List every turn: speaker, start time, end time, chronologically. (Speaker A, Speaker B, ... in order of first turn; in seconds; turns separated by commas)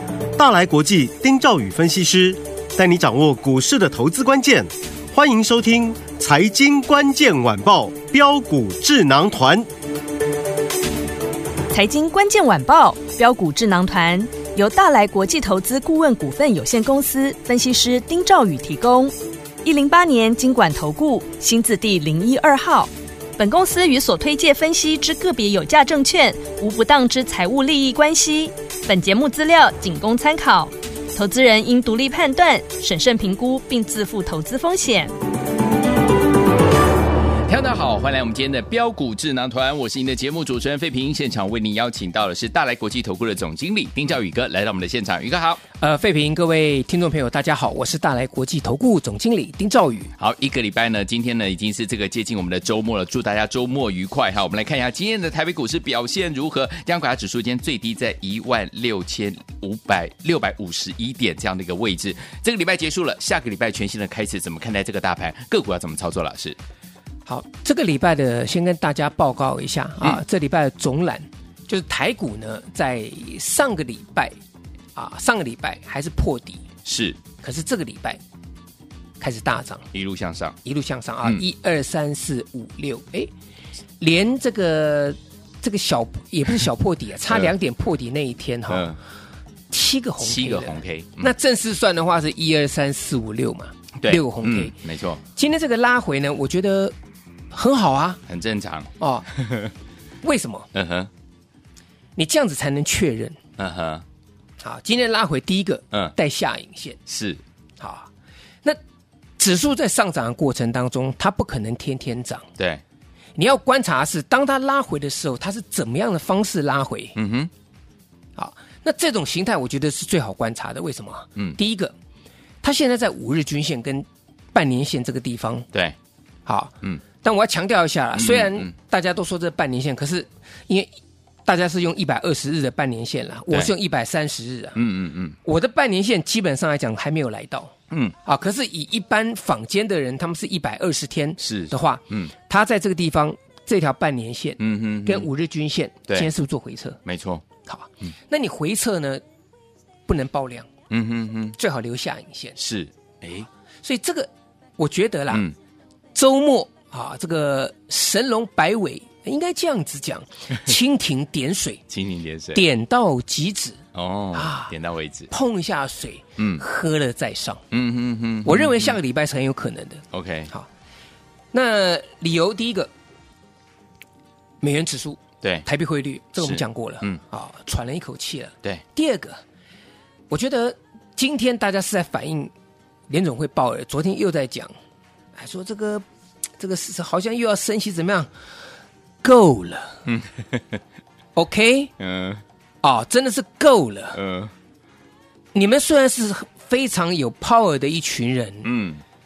Speaker A: 0.4-9.7, Speaker B: 11.7-35.1, Speaker C: 37.5-45.6, Speaker D: 45.8-50.1, Speaker C: 50.2-66.6, Speaker D: 67.2-74.3, Speaker D: 74.9-76.6, Speaker C: 76.8-77.2, Speaker D: 77.4-78.2, Speaker D: 79.2-79.9, Speaker C: 79.9-80.6, Speaker D: 80.6-83.3, Speaker D: 84.0-88.9, Speaker C: 88.7-89.0, Speaker D: 89.7-94.8, Speaker C: 90.2-91.3, Speaker C: 94.0-95.2, Speaker D: 95.3-96.9, Speaker D: 97.5-98.2, Speaker C: 98.3-99.7, Speaker D: 99.0-99.3, Speaker D: 100.2-100.7, Speaker C: 100.7-101.1, Speaker D: 102.2-103.4, Speaker C: 103.6-104.0, Speaker D: 104.6-107.0, Speaker C: 107.1-107.4, Speaker D: 107.8-108.1, Speaker D: 109.4-112.5, Speaker D: 113.3-117.2, Speaker C: 117.1-117.5, Speaker D: 118.3-121.9, Speaker D: 122.6-125.7, Speaker D: 126.5-130.9, Speaker C: 128.1-128.7, Speaker D: 131.4-134.8, Speaker C: 134.7-135.4, Speaker D: 135.4-137.7, Speaker D: 138.2-147.0, Speaker C: 141.4-142.3, Speaker C: 144.6-145.3, Speaker C: 147.0-147.4, Speaker D: 147.6-149.2, Speaker D: 150.1-150.7, Speaker C: 150.9-151.6, Speaker D: 151.6-152.6, Speaker C: 152.6-153.5, Speaker D: 153.8-155.4, Speaker C: 155.3-155.5, Speaker D: 156.1-161.8, Speaker C: 161.9-162.6, Speaker D: 162.5-164.7, Speaker C: 163.9-165.3, Speaker D: 165.3-167.6, Speaker C: 166.4-166.6, Speaker C: 167.7-168.9, Speaker D: 168.4-170.7, Speaker C: 170.1-170.5, Speaker D: 171.5-172.9, Speaker D: 174.6-179.4, Speaker C: 175.4-175.7, Speaker C: 176.4-177.2, Speaker D: 180.3-182.5, Speaker D: 183.1-184.7, Speaker D: 185.3-186.0, Speaker D: 186.6-188.3, Speaker D: 189.2-190.0, Speaker C: 190.1-190.8, Speaker D: 191.3-191.9, Speaker C: 192.0-192.4, Speaker D: 192.8-194.2, Speaker C: 194.1-194.5, Speaker D: 195.5-198.7, Speaker C: 198.6-199.0